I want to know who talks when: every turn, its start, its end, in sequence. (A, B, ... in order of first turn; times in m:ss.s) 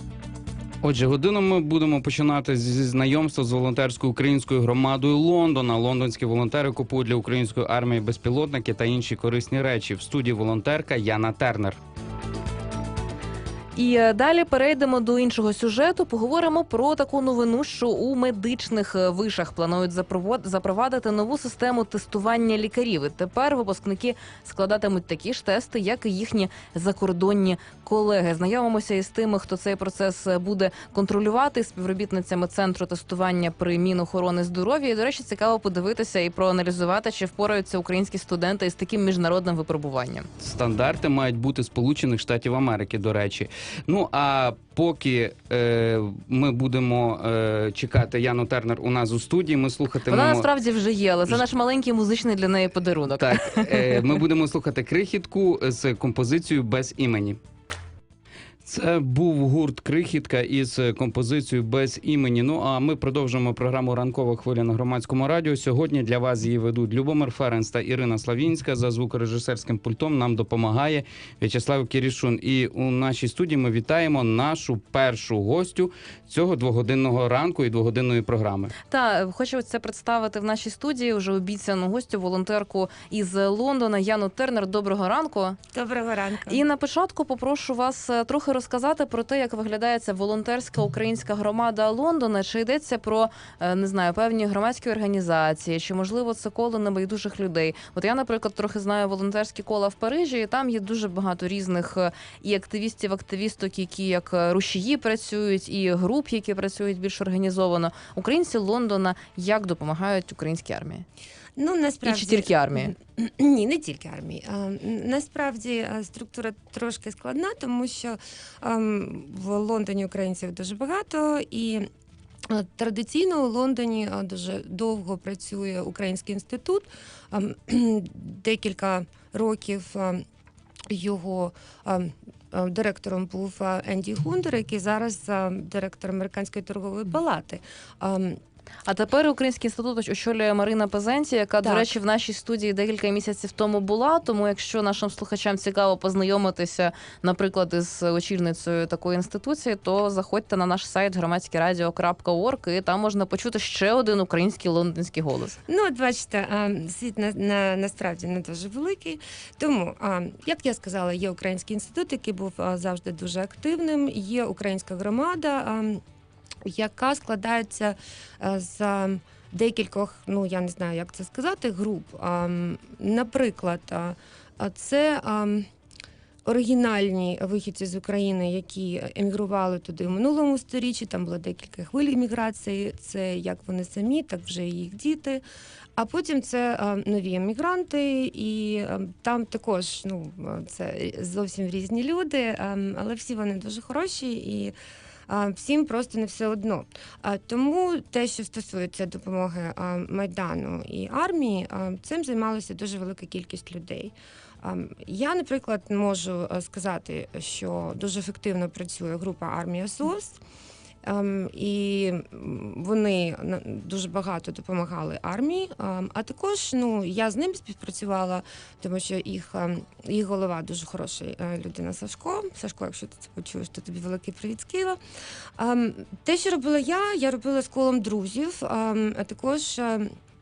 0:00.8-0:11.8 A
0:13.8-0:40.3 B
0:40.4-0:50.5 A
0:50.1-0:54.0 B
0:53.1-0:57.4 A
0:58.6-1:18.7 A
1:18.9-1:25.6 B
1:25.7-1:26.6 C
1:26.5-1:51.0 B
1:51.6-2:01.9 C
1:52.0-1:52.9 B
2:02.5-2:10.2 C
2:10.9-2:18.4 C
2:18.8-2:35.6 B
2:21.6-2:21.9 C
2:35.7-2:46.0 C
2:46.6-2:55.7 C
2:56.4-3:05.4 C
3:06.0-3:14.7 C
3:15.3-3:30.4 C
3:31.0-3:45.0 C
3:45.6-3:50.1 C